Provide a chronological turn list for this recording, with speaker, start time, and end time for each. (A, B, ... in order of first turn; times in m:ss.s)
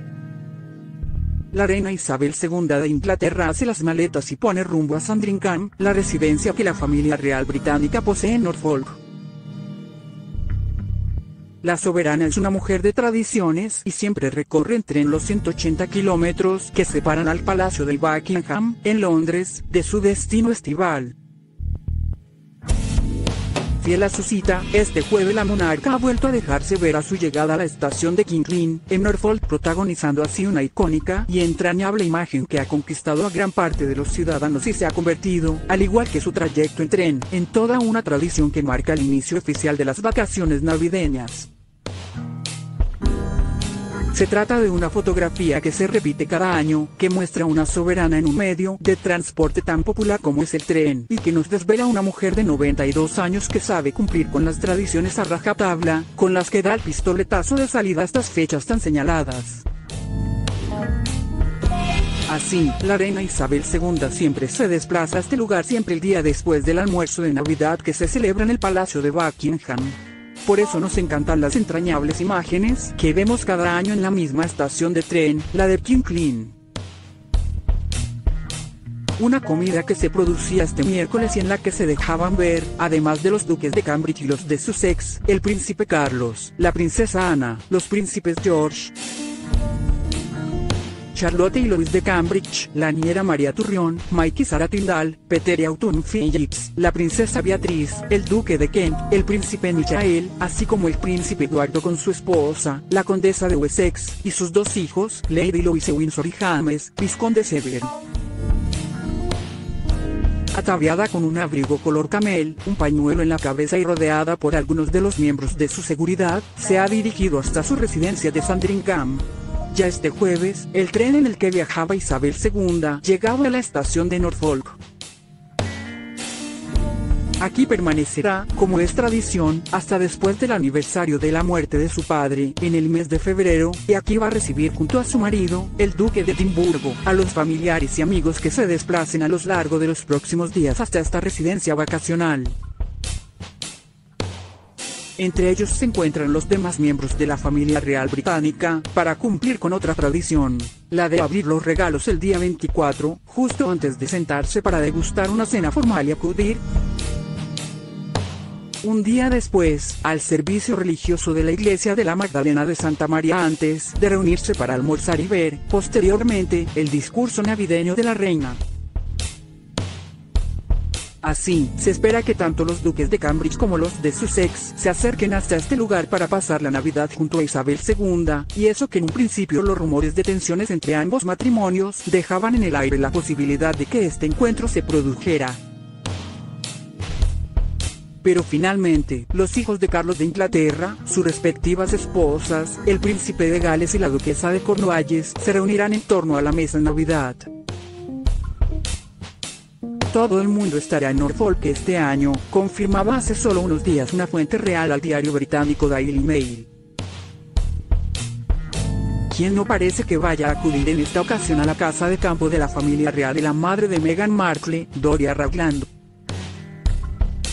0:01.5-0:09.0 A
0:11.6-0:21.2 A
0:23.8-0:41.5 A
0:44.1-0:59.7 A
1:02.3-1:16.6 A
1:19.2-1:28.9 A
1:31.1-1:47.9 A
1:50.5-2:04.8 A
2:07.4-2:22.6 A
2:25.2-2:36.6 A
2:38.8-2:48.6 A
2:51.2-3:05.6 A
3:08.2-3:17.5 A
3:20.1-3:26.7 A
3:29.3-3:35.9 A